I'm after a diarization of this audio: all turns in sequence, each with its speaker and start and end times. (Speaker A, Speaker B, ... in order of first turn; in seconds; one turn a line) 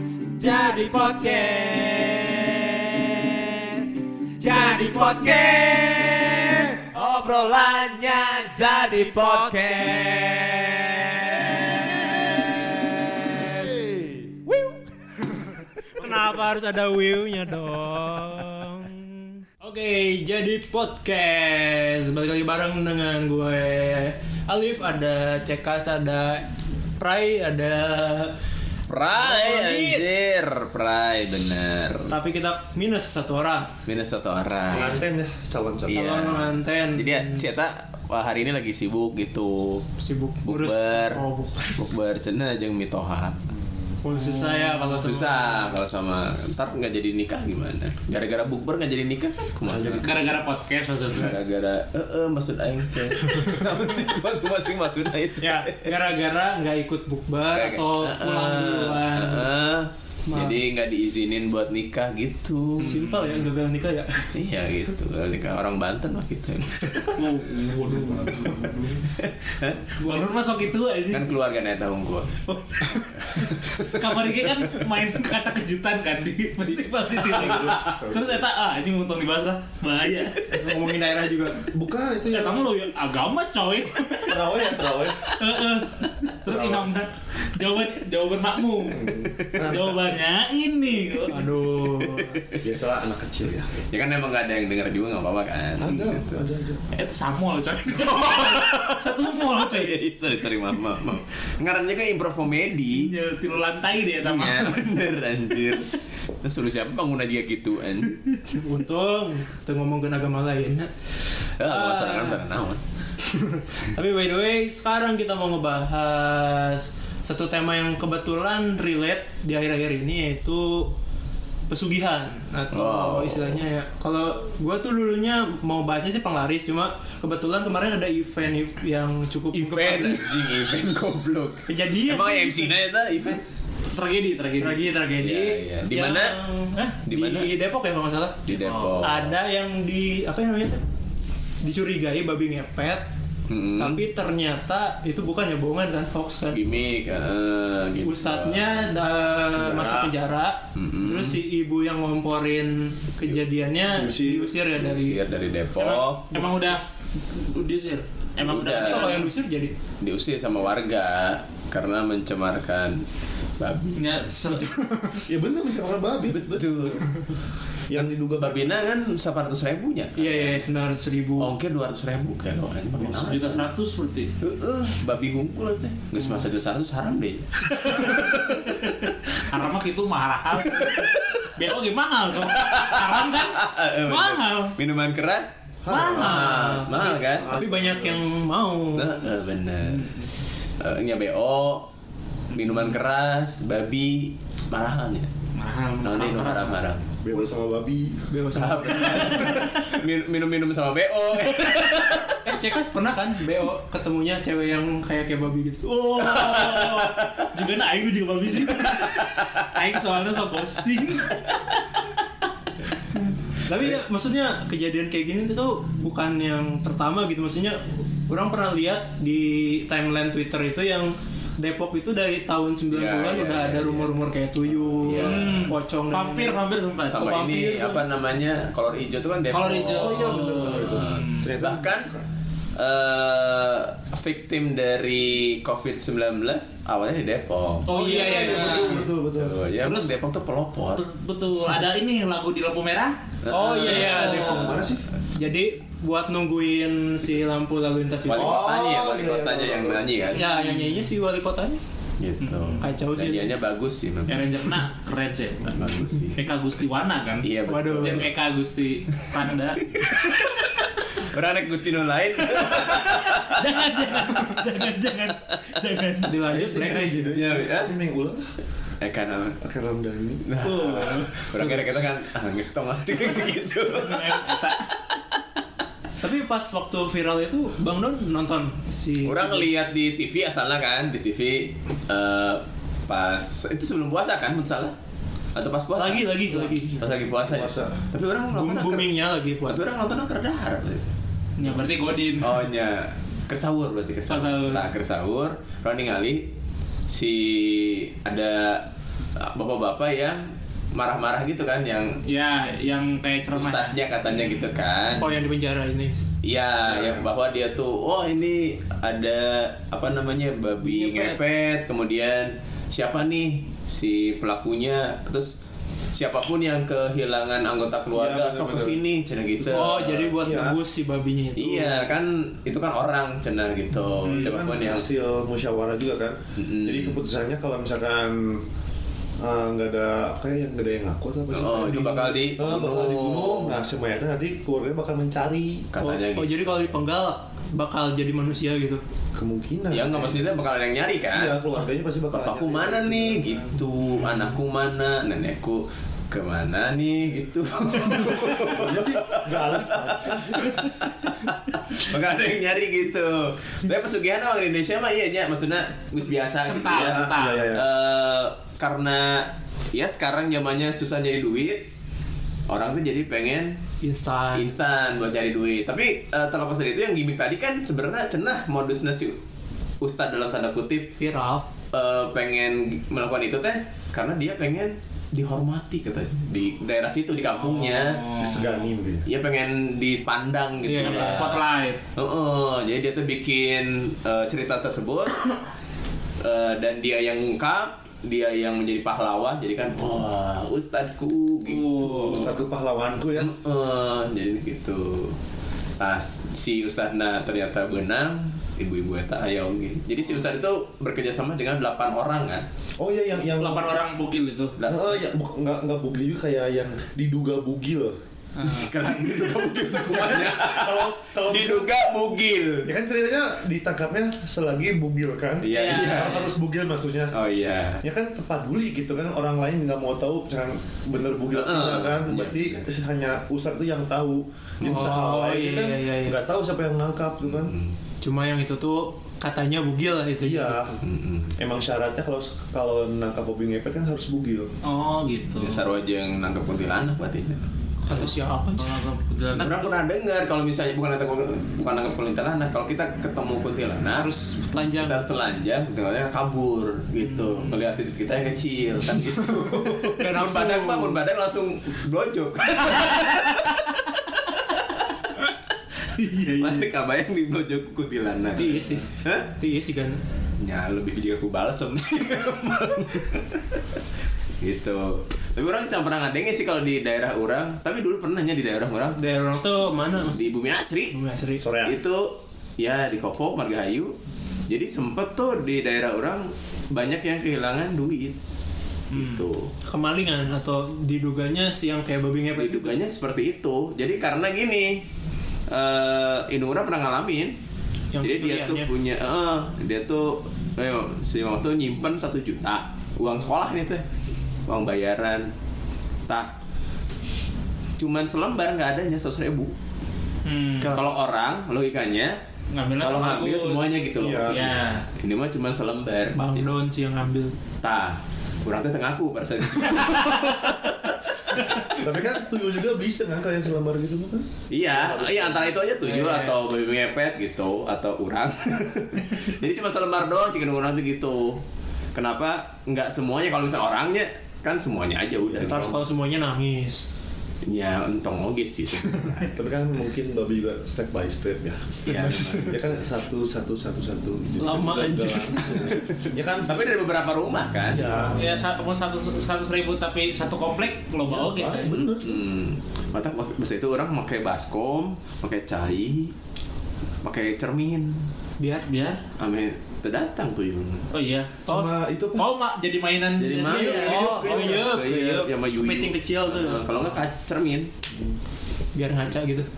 Speaker A: 0.4-2.0
Speaker B: 0.4-3.9
Speaker B: 4.4-11.8
Speaker A: 4.4-5.2
Speaker A: 6.0-6.6
Speaker A: 8.7-9.8
Speaker C: 13.6-14.3
Speaker A: 15.9-28.4
Speaker B: 28.9-32.1
Speaker A: 29.2-30.1
Speaker A: 32.1-33.8
Speaker B: 33.9-35.0
Speaker C: 34.7-36.4
Speaker A: 35.9-37.5
Speaker B: 36.1-39.9
Speaker A: 40.0-41.8
Speaker B: 40.5-43.4
Speaker C: 43.5-44.0
Speaker A: 44.0-45.8
Speaker D: 44.1-45.1
Speaker B: 44.9-50.1
Speaker C: 49.6-50.4
Speaker D: 50.0-51.4
Speaker B: 51.1-55.9
Speaker A: 55.4-59.5
Speaker B: 57.5-62.9
Speaker A: 60.3-60.6
Speaker A: 62.8-64.3
Speaker D: 62.8-63.5
Speaker B: 64.3-67.1
Speaker D: 67.1-68.7
Speaker A: 67.2-68.7
Speaker C: 67.9-69.0
Speaker B: 69.1-69.8
Speaker A: 70.0-70.3
Speaker D: 70.0-71.3
Speaker B: 71.1-72.4
Speaker B: 73.3-74.0
Speaker D: 73.4-80.5
Speaker C: 77.3-78.4
Speaker A: 80.5-81.7
Speaker C: 81.7-82.7
Speaker D: 82.3-91.5
Speaker C: 84.2-85.3
Speaker C: 86.5-86.9
Speaker C: 88.9-90.1
Speaker A: 91.3-92.4
Speaker B: 92.0-92.7
Speaker C: 92.6-93.7
Speaker B: 93.8-96.3
Speaker C: 95.8-96.8
Speaker D: 96.9-100.0
Speaker B: 98.0-103.1
Speaker D: 102.9-104.9
Speaker B: 104.2-108.2
Speaker A: 108.5-110.9
Speaker B: 111.6-112.8
Speaker A: 111.6-112.4
Speaker A: 113.3-121.0
Speaker A: 121.7-130.4
Speaker B: 122.7-123.6
Speaker B: 129.5-133.4
Speaker A: 131.7-132.7
Speaker D: 133.9-134.9
Speaker A: 134.6-138.5
Speaker B: 135.2-136.4
Speaker B: 137.1-137.5
Speaker B: 138.5-139.3
Speaker D: 138.5-139.1
Speaker A: 139.0-140.8
Speaker A: 141.6-143.1
Speaker B: 143.5-144.0
Speaker A: 143.8-146.6
Speaker B: 146.5-148.8
Speaker A: 148.0-155.2
Speaker C: 149.6-150.1
Speaker B: 150.8-151.4
Speaker C: 153.9-154.5
Speaker B: 154.7-156.4
Speaker D: 155.8-159.3
Speaker B: 158.4-159.2
Speaker A: 158.8-159.7
Speaker B: 160.0-163.1
Speaker B: 163.6-164.1
Speaker D: 164.0-164.8
Speaker A: 164.5-165.2
Speaker C: 165.2-167.2
Speaker B: 166.3-167.2
Speaker C: 167.9-168.7
Speaker B: 168.4-170.6
Speaker A: 170.2-171.5
Speaker B: 171.4-173.7
Speaker C: 173.0-173.5
Speaker D: 173.1-174.3
Speaker B: 174.4-178.3
Speaker D: 177.7-184.8
Speaker B: 180.7-181.1
Speaker B: 182.4-187.6
Speaker C: 185.8-188.2
Speaker D: 185.9-186.7
Speaker A: 186.2-189.2
Speaker B: 188.9-190.1
Speaker D: 189.9-190.3
Speaker B: 190.8-191.9
Speaker B: 192.5-195.3
Speaker D: 195.6-196.8
Speaker B: 196.0-197.1
Speaker C: 197.2-198.4
Speaker A: 198.3-199.4
Speaker B: 198.5-202.4
Speaker D: 199.1-199.9
Speaker A: 202.4-205.9
Speaker D: 205.8-211.4
Speaker B: 206.4-207.2
Speaker A: 213.7-226.6
Speaker B: 222.9-224.2
Speaker B: 225.0-225.7
Speaker D: 225.1-227.5
Speaker B: 227.0-232.1
Speaker A: 227.2-228.0
Speaker D: 229.5-231.5
Speaker C: 229.8-232.2
Speaker B: 232.8-241.0
Speaker D: 237.9-239.1
Speaker A: 237.9-239.0
Speaker C: 238.1-239.6
Speaker D: 239.8-240.1
Speaker D: 240.9-243.2
Speaker B: 243.4-244.9
Speaker A: 243.5-244.7
Speaker C: 243.9-245.1
Speaker D: 244.0-244.7
Speaker A: 245.3-248.7
Speaker B: 248.3-250.4
Speaker C: 248.3-250.3
Speaker D: 250.3-251.1
Speaker A: 250.3-251.8
Speaker B: 252.2-254.7
Speaker D: 252.4-252.9
Speaker A: 252.8-253.5
Speaker D: 254.3-260.5
Speaker B: 255.7-256.4
Speaker B: 257.4-258.3
Speaker A: 257.7-258.2
Speaker B: 261.1-263.6
Speaker D: 262.6-266.4
Speaker A: 266.2-267.4
Speaker C: 266.5-268.5
Speaker B: 266.8-267.9
Speaker B: 269.0-269.6
Speaker C: 269.6-270.4
Speaker B: 270.4-274.7
Speaker D: 270.6-271.3
Speaker A: 271.5-272.1
Speaker D: 273.9-274.9
Speaker A: 276.2-279.7
Speaker B: 279.2-285.0
Speaker B: 285.6-286.4
Speaker A: 285.9-286.9
Speaker C: 286.5-288.0
Speaker B: 287.0-289.1
Speaker A: 288.5-289.8
Speaker B: 289.7-291.0
Speaker D: 291.6-292.7
Speaker B: 292.4-296.5
Speaker D: 294.3-294.9
Speaker B: 297.1-302.2
Speaker D: 302.3-304.6
Speaker B: 303.5-305.3
Speaker A: 305.2-306.2
Speaker B: 306.4-315.6
Speaker C: 306.9-307.3
Speaker A: 310.8-311.4
Speaker B: 316.1-320.8
Speaker C: 318.1-319.0
Speaker A: 319.6-322.1
Speaker C: 320.4-320.8
Speaker B: 321.6-325.1
Speaker C: 324.3-328.6
Speaker B: 326.6-327.2
Speaker C: 329.4-335.9
Speaker B: 331.5-333.8
Speaker B: 335.9-336.9
Speaker A: 336.0-339.0
Speaker C: 339.4-340.4
Speaker B: 339.9-341.6
Speaker C: 341.3-343.8
Speaker B: 342.3-361.9
Speaker C: 348.5-350.9
Speaker D: 356.7-357.7
Speaker C: 356.9-357.8
Speaker B: 362.7-363.8
Speaker A: 364.0-364.7
Speaker B: 364.5-369.4
Speaker B: 370.0-371.1
Speaker A: 371.2-371.7
Speaker B: 371.9-378.4
Speaker D: 377.5-378.8
Speaker C: 378.3-379.3
Speaker B: 379.3-381.6
Speaker A: 380.8-381.4
Speaker D: 381.0-382.0
Speaker B: 382.2-385.4
Speaker B: 386.4-392.6
Speaker D: 391.7-392.6
Speaker C: 392.1-393.5
Speaker B: 393.4-395.4
Speaker B: 396.0-402.7
Speaker C: 403.0-404.0
Speaker D: 403.5-404.8
Speaker B: 404.8-405.1
Speaker C: 404.8-408.2
Speaker D: 408.6-408.9
Speaker B: 408.6-412.9
Speaker C: 409.9-411.9
Speaker C: 412.8-417.4
Speaker B: 415.6-416.6
Speaker D: 415.7-416.6
Speaker B: 417.3-418.0
Speaker C: 418.0-427.8
Speaker B: 421.5-422.9
Speaker A: 424.8-426.4
Speaker B: 427.4-428.0
Speaker A: 428.2-430.9
Speaker C: 430.4-431.0
Speaker B: 431.0-431.5
Speaker C: 431.6-434.7
Speaker D: 434.8-435.8
Speaker B: 435.6-437.6
Speaker A: 438.0-439.1
Speaker D: 438.1-440.0
Speaker B: 439.5-444.3
Speaker A: 444.1-445.3
Speaker B: 445.0-453.7
Speaker D: 447.2-447.8
Speaker A: 450.1-451.2
Speaker D: 456.1-456.9
Speaker B: 456.6-459.5
Speaker A: 458.6-460.2
Speaker B: 460.6-463.6
Speaker B: 464.6-469.2
Speaker A: 469.2-470.4
Speaker B: 470.3-471.2
Speaker A: 471.1-471.6
Speaker C: 471.6-472.0
Speaker B: 471.8-474.1
Speaker B: 474.7-478.4
Speaker D: 479.1-479.5
Speaker B: 479.1-479.7
Speaker A: 479.9-483.0
Speaker B: 482.6-485.1
Speaker B: 485.7-487.6
Speaker A: 488.1-488.9
Speaker B: 488.2-494.1
Speaker B: 494.7-495.5
Speaker B: 496.3-496.5
Speaker B: 498.0-499.7
Speaker D: 500.4-501.0
Speaker B: 500.9-502.4
Speaker D: 502.7-505.1
Speaker B: 503.0-506.7
Speaker C: 504.2-504.7
Speaker A: 506.4-507.6
Speaker B: 507.8-511.9
Speaker D: 510.3-510.5
Speaker C: 511.9-515.8
Speaker B: 514.7-521.6
Speaker A: 516.0-516.5
Speaker B: 522.1-526.0
Speaker C: 525.5-526.0
Speaker A: 525.6-527.1
Speaker B: 527.6-529.5
Speaker C: 529.5-532.0
Speaker A: 532.0-532.8
Speaker B: 532.0-532.9
Speaker C: 532.7-537.0
Speaker A: 534.6-536.0
Speaker B: 535.9-538.3
Speaker C: 537.9-538.6
Speaker D: 538.3-542.0
Speaker C: 541.3-542.4
Speaker B: 542.2-546.3
Speaker B: 547.2-548.2
Speaker A: 548.6-548.9
Speaker D: 548.8-549.2
Speaker B: 549.4-551.1
Speaker D: 551.1-551.6
Speaker A: 551.7-551.9
Speaker C: 551.7-552.5
Speaker D: 552.4-554.8
Speaker B: 553.4-557.9
Speaker C: 553.7-554.7
Speaker A: 553.9-556.9
Speaker A: 559.0-559.7